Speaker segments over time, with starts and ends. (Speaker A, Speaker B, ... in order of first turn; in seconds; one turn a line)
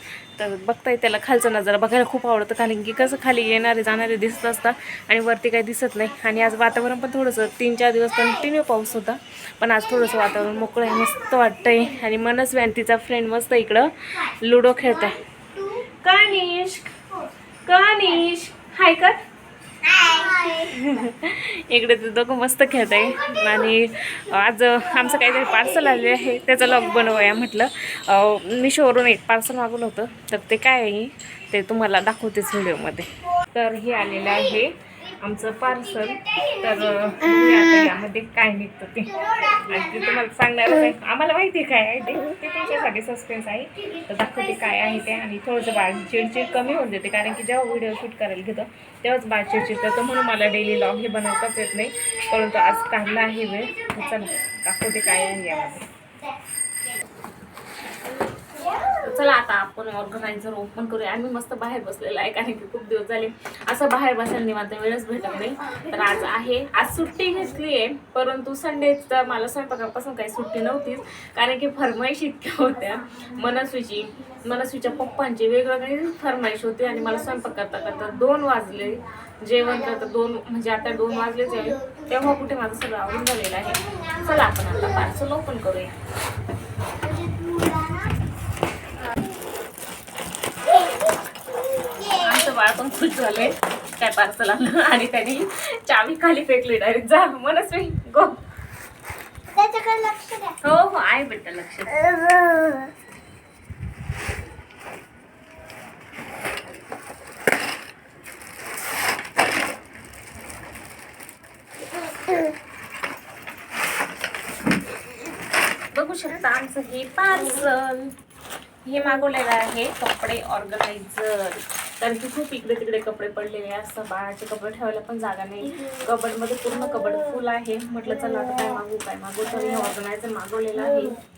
Speaker A: 0.3-17.0
Speaker A: 17.6-19.2
Speaker A: 19.9-55.9
Speaker A: 58.8-85.9
Speaker B: 87.0-88.1
Speaker B: 90.7-91.0
Speaker B: 91.8-92.2
Speaker A: 92.0-98.4
Speaker B: 99.5-100.5
Speaker A: 100.6-102.1
Speaker B: 102.1-102.8
Speaker A: 115.9-118.1
Speaker A: 118.8-131.2